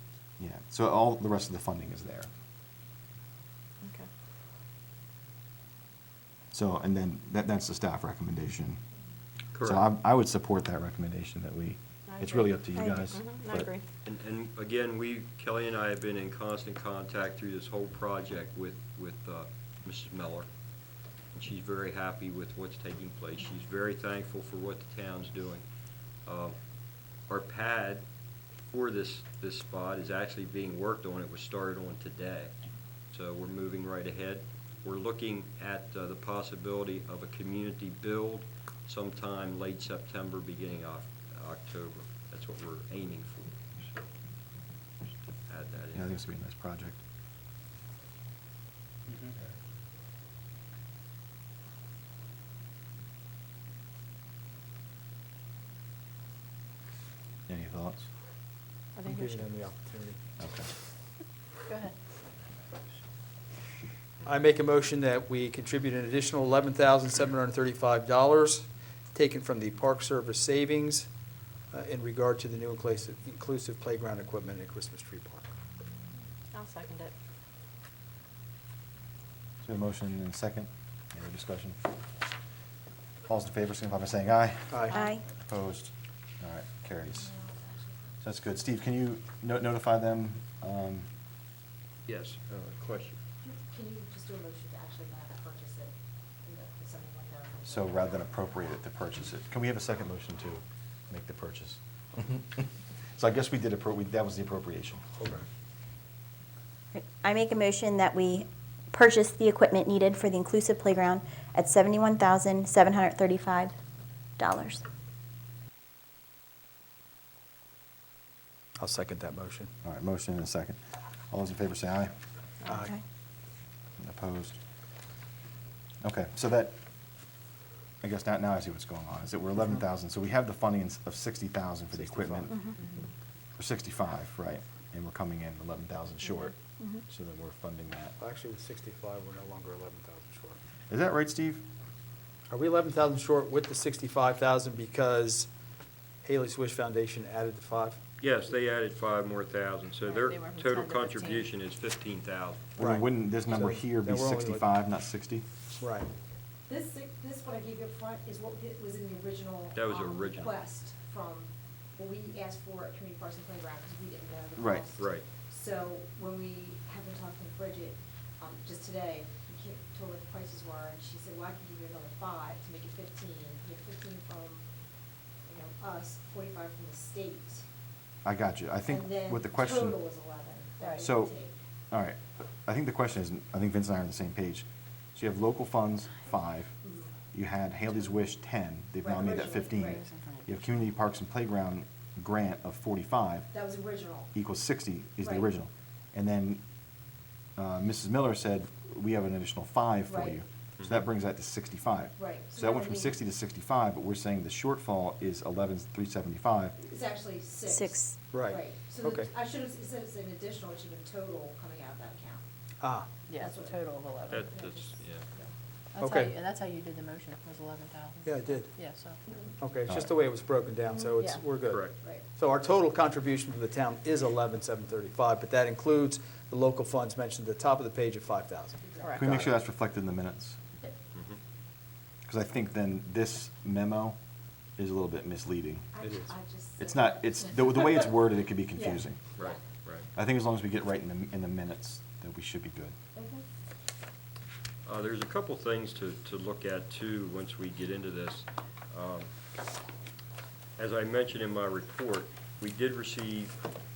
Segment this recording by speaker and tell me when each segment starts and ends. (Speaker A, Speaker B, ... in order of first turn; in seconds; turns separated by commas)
Speaker A: 0.4-2.3, Speaker A: 6.5-8.8, Speaker B: 9.5-9.9, Speaker A: 9.6-13.7, Speaker C: 12.1-13.8, Speaker B: 14.1-20.5, Speaker B: 21.3-25.6, Speaker B: 26.3-26.6, Speaker B: 27.3-28.0, Speaker B: 28.7-32.5, Speaker B: 33.1-44.0, Speaker B: 45.0-46.2, Speaker A: 45.9-47.0, Speaker D: 49.1-49.4, Speaker A: 57.5-58.1, Speaker C: 59.0-59.5, Speaker D: 59.0-60.2, Speaker A: 60.4-60.7, Speaker C: 61.7-61.9, Speaker D: 64.2-71.1, Speaker D: 71.7-75.5, Speaker C: 76.5-77.1, Speaker A: 79.6-81.8, Speaker A: 83.3-87.3, Speaker D: 84.7-85.0, Speaker E: 87.3-87.9, Speaker A: 88.2-91.1, Speaker B: 92.1-93.2, Speaker E: 93.4-95.9, Speaker E: 96.4-98.1, Speaker A: 97.7-105.1, Speaker D: 105.2-105.4, Speaker F: 107.0-113.7, Speaker F: 114.4-114.8, Speaker D: 118.8-119.7, Speaker A: 119.8-120.8, Speaker A: 121.3-122.1, Speaker A: 124.0-124.6, Speaker A: 126.0-126.8, Speaker A: 128.0-132.6, Speaker D: 129.6-129.8, Speaker D: 131.9-132.5, Speaker A: 133.6-136.6, Speaker A: 137.1-138.1, Speaker D: 138.2-140.6, Speaker A: 140.9-141.6, Speaker D: 142.5-145.5, Speaker D: 146.2-148.0, Speaker B: 148.2-152.7, Speaker C: 150.1-151.5, Speaker A: 152.8-155.4, Speaker D: 152.8-154.7, Speaker D: 155.8-156.1, Speaker E: 156.7-174.6, Speaker B: 159.8-160.6, Speaker A: 164.6-164.9, Speaker B: 165.0-165.2, Speaker E: 175.5-177.7, Speaker A: 178.2-180.0, Speaker E: 178.9-181.6, Speaker C: 180.8-181.1, Speaker A: 181.0-181.3, Speaker A: 181.9-184.7, Speaker A: 185.2-186.7, Speaker E: 186.8-187.1, Speaker A: 187.3-193.5, Speaker E: 189.0-190.0, Speaker C: 189.5-190.7, Speaker E: 193.5-194.3, Speaker A: 194.3-196.6, Speaker E: 195.2-195.5, Speaker A: 197.6-206.8, Speaker E: 200.1-200.4, Speaker E: 202.2-203.2, Speaker E: 206.8-212.4, Speaker F: 207.7-208.1, Speaker D: 208.3-209.3, Speaker D: 212.8-213.1, Speaker C: 213.3-214.6, Speaker E: 213.4-215.5, Speaker B: 214.3-215.2, Speaker C: 215.9-219.2, Speaker D: 216.0-216.4, Speaker D: 218.2-218.7, Speaker D: 219.6-229.6, Speaker A: 219.9-220.1, Speaker C: 221.2-221.4, Speaker B: 221.7-222.0, Speaker C: 229.0-229.3, Speaker A: 229.2-230.6, Speaker A: 232.3-234.2, Speaker A: 234.8-235.9, Speaker E: 235.9-238.1, Speaker D: 236.0-236.3, Speaker A: 236.8-239.2, Speaker E: 238.8-239.6, Speaker B: 239.4-240.1, Speaker A: 240.2-242.9, Speaker E: 243.2-243.4, Speaker B: 244.9-249.3, Speaker B: 250.8-253.6